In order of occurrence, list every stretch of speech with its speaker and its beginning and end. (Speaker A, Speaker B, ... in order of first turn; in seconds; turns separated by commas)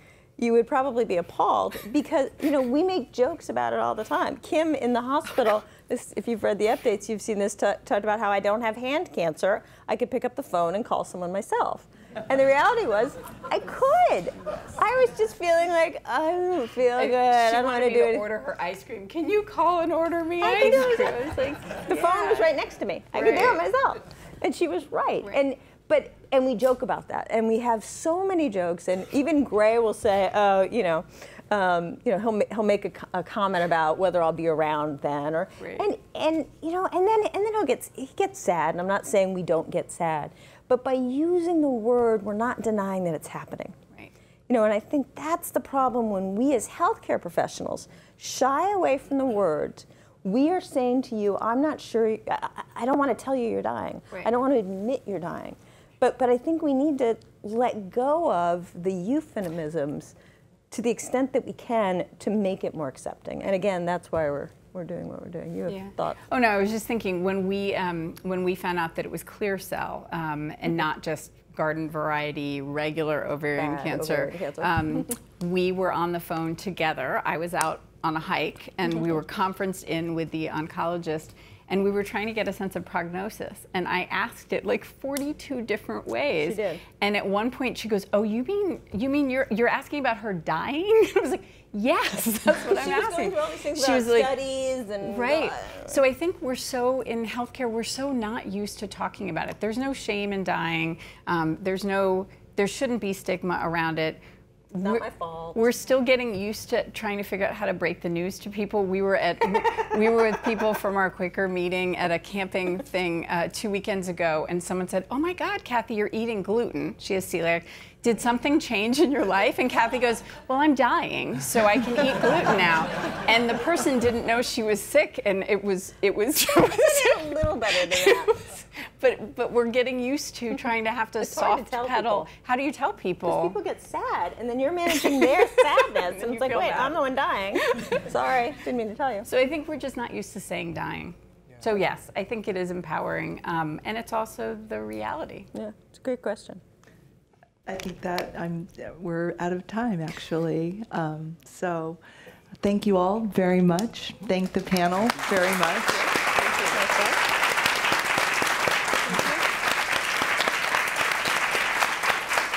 Speaker A: 0.4-18.3, Speaker B: 17.0-22.5, Speaker A: 20.4-43.8, Speaker B: 23.1-23.6, Speaker B: 35.6-35.9, Speaker A: 44.5-60.1, Speaker A: 60.7-66.2, Speaker B: 65.7-94.3, Speaker A: 73.6-75.2, Speaker A: 78.9-79.2, Speaker A: 86.4-86.8, Speaker A: 92.6-96.0, Speaker B: 95.0-104.2, Speaker B: 104.7-133.6, Speaker A: 104.8-105.7, Speaker A: 126.7-128.4, Speaker A: 131.2-132.3, Speaker A: 133.3-139.3, Speaker B: 135.0-137.0, Speaker B: 137.7-138.1, Speaker B: 139.3-145.5, Speaker A: 145.5-146.6, Speaker C: 147.7-152.0, Speaker C: 152.6-156.2, Speaker A: 156.7-157.1